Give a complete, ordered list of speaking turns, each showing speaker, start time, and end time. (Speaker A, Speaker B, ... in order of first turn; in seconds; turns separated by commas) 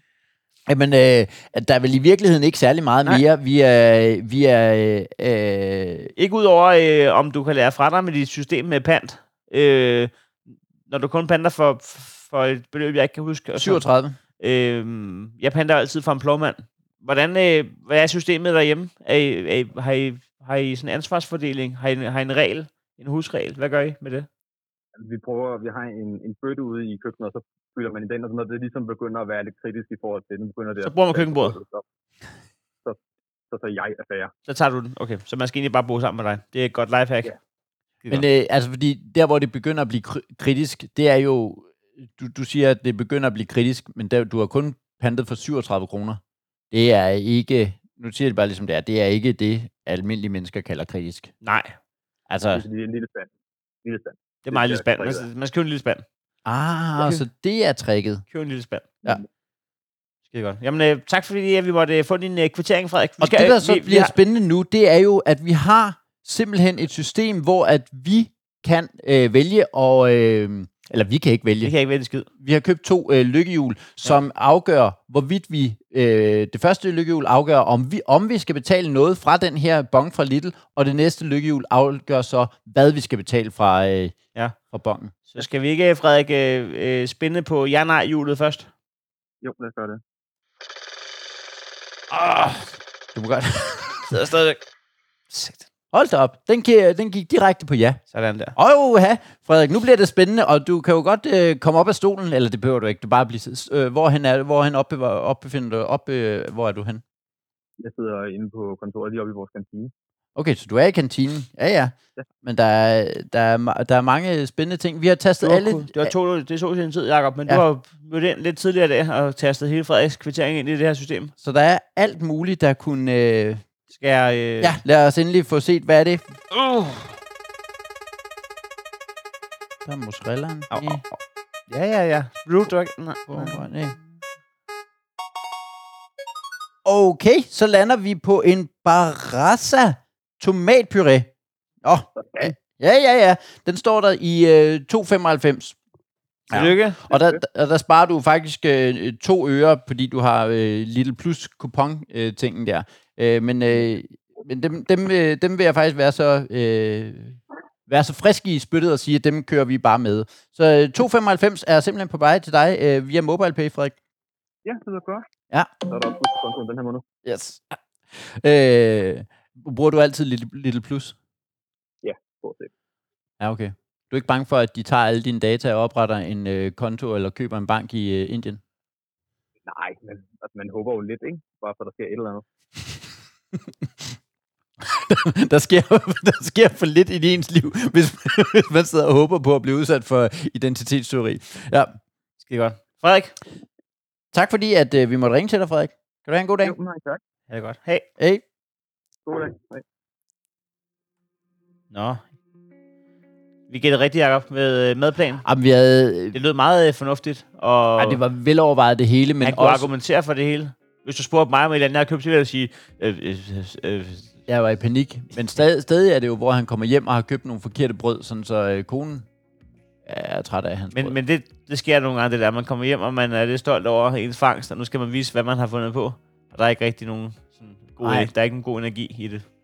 Speaker A: 0.7-6.1, Speaker B: 6.2-10.1, Speaker B: 10.9-13.8, Speaker A: 13.6-14.2, Speaker B: 14.4-24.3, Speaker C: 24.9-31.8, Speaker B: 30.8-31.6, Speaker C: 33.5-34.3, Speaker B: 34.5-37.3, Speaker A: 38.1-46.2, Speaker A: 46.7-51.3, Speaker B: 51.4-51.8, Speaker A: 52.3-52.6, Speaker C: 52.5-53.3, Speaker C: 53.8-55.2, Speaker B: 54.4-56.0, Speaker A: 56.4-58.2, Speaker B: 58.3-58.9, Speaker B: 60.3-64.1, Speaker A: 63.2-71.7, Speaker B: 71.6-72.3, Speaker A: 72.4-84.2, Speaker A: 84.7-85.1, Speaker B: 85.3-88.7, Speaker C: 89.4-90.0, Speaker A: 93.1-94.1, Speaker B: 94.1-94.6, Speaker B: 95.3-95.7, Speaker A: 95.9-98.0, Speaker B: 98.1-98.5, Speaker A: 98.5-107.0, Speaker C: 107.8-109.9, Speaker A: 110.3-116.1, Speaker B: 115.4-121.3, Speaker A: 121.4-123.6, Speaker B: 123.9-124.8, Speaker A: 124.6-126.3, Speaker B: 126.5-127.1, Speaker A: 129.8-131.0, Speaker B: 130.7-131.2, Speaker B: 131.7-133.7, Speaker A: 133.3-133.9, Speaker A: 136.8-141.3, Speaker A: 141.8-145.8, Speaker C: 142.2-142.5, Speaker A: 146.5-164.0, Speaker B: 146.5-147.0, Speaker C: 164.6-165.2, Speaker C: 165.8-167.0, Speaker A: 167.2-171.2, Speaker C: 172.0-172.7, Speaker A: 173.4-178.6, Speaker C: 179.7-182.4, Speaker A: 183.6-184.1, Speaker A: 184.8-191.9, Speaker B: 192.4-193.4, Speaker A: 194.3-196.7, Speaker C: 196.6-197.2, Speaker B: 197.5-198.1, Speaker A: 198.2-198.4, Speaker C: 199.2-199.8, Speaker B: 201.9-202.2, Speaker B: 203.7-205.4, Speaker A: 205.4-206.4, Speaker B: 206.3-208.2, Speaker A: 208.0-209.9, Speaker B: 209.4-214.3, Speaker A: 214.5-219.3, Speaker A: 220.0-221.1, Speaker B: 220.9-229.4, Speaker A: 228.0-228.3